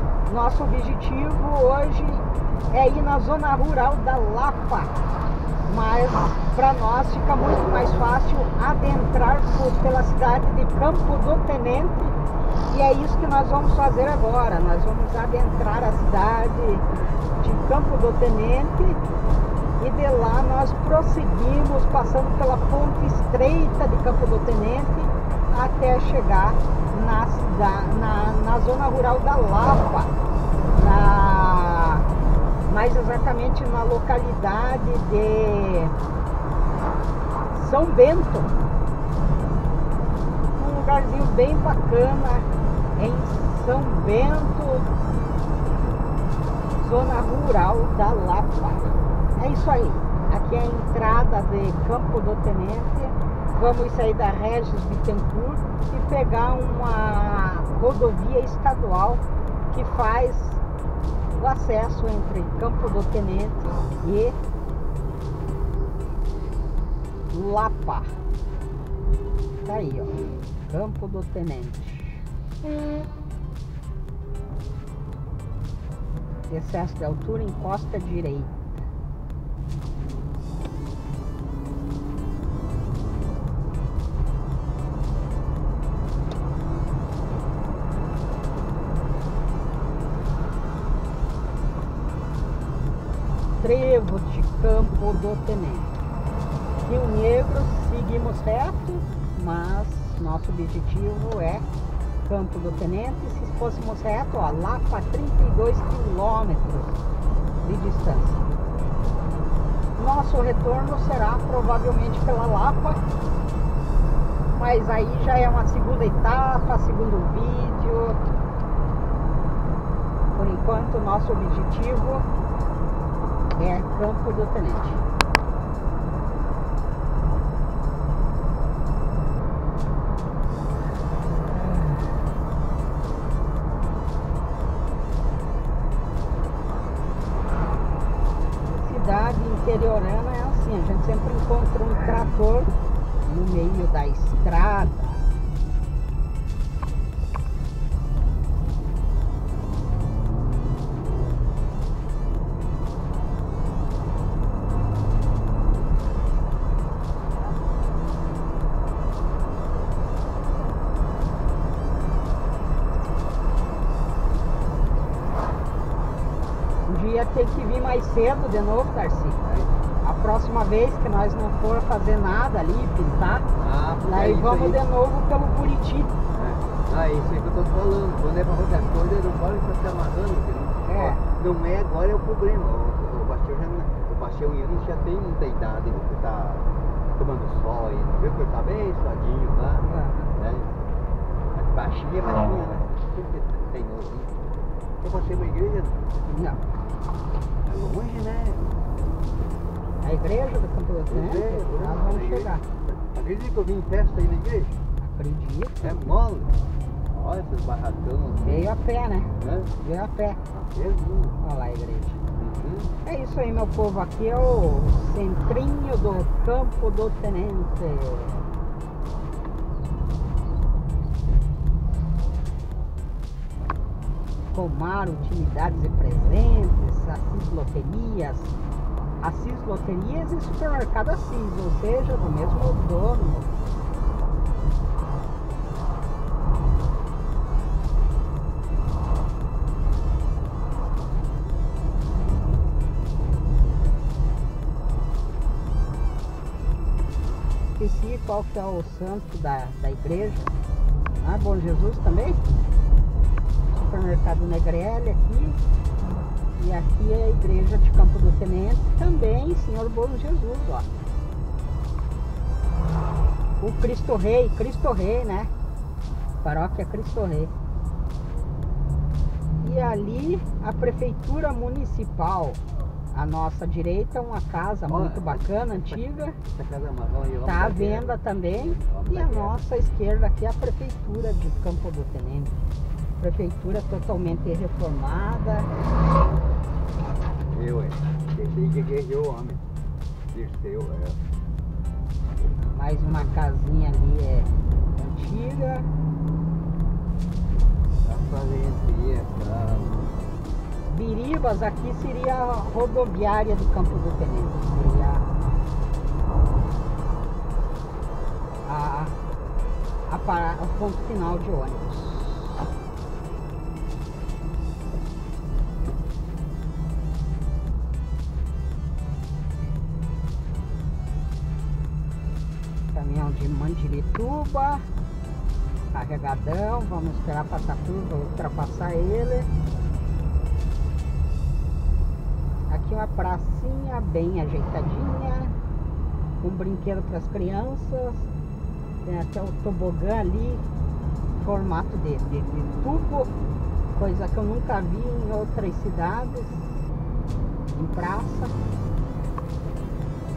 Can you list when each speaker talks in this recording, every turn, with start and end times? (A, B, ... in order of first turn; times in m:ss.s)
0:00.3-0:05.0 A
0:05.7-0:12.2 A
0:12.7-0:16.9 A
0:17.4-0:19.0 A
0:19.8-0:30.1 A
0:30.7-0:32.1 A
0:32.7-0:36.0 A
0:37.5-0:38.6 A
0:40.6-0:44.9 A
0:46.8-1:00.6 A
1:01.4-1:04.4 A
1:07.3-1:08.1 A
1:09.6-1:12.2 A
1:16.5-1:18.8 A
1:33.6-1:35.9 A
1:36.8-1:41.7 A
1:42.2-1:47.0 A
1:47.6-1:48.4 A
1:50.0-1:53.0 A
1:54.5-1:58.2 A
2:00.3-2:02.3 A
2:03.6-2:05.0 A
2:18.7-2:25.2 A
2:46.9-2:49.4 A
2:49.4-2:49.7 B
2:50.0-2:53.5 A
2:53.6-2:54.8 B
2:54.1-2:56.2 A
2:56.3-3:06.6 B
3:00.8-3:01.2 A
3:07.2-3:10.7 B
3:09.8-3:10.3 A
3:11.6-3:14.3 B
3:15.0-3:16.0 B
3:16.3-3:16.6 A
3:17.6-3:18.7 B
3:20.0-3:22.6 A
3:21.1-3:24.8 B
3:25.0-3:26.0 A
3:25.8-3:26.5 B
3:27.1-3:28.7 B
3:28.4-3:30.4 A
3:29.4-3:29.7 B
3:30.5-3:31.4 B
3:31.4-3:32.2 A
3:32.3-3:33.0 B
3:33.0-3:38.5 A
3:44.5-3:48.6 A
3:49.2-3:53.5 A
4:07.7-4:10.5 A
4:11.2-4:12.4 A
4:13.7-4:15.6 A
4:16.6-4:20.9 A
4:23.6-4:25.5 A
4:26.4-4:27.5 A
4:29.6-4:32.6 A
4:33.1-4:36.4 A
4:34.9-4:39.6 B
4:37.4-4:42.5 A
4:43.2-4:45.7 A
4:47.5-4:49.6 B
4:50.3-4:51.2 B
4:52.7-4:55.9 A
4:58.0-5:00.1 B
5:00.9-5:05.3 A
5:08.6-5:09.2 A
5:10.1-5:12.7 A
5:22.9-5:24.8 A
5:25.9-5:29.5 A
5:32.7-5:35.6 A
5:36.4-5:38.3 A
5:39.0-5:40.6 A
5:41.4-5:43.3 A
5:43.9-5:46.8 A
5:47.7-5:48.5 A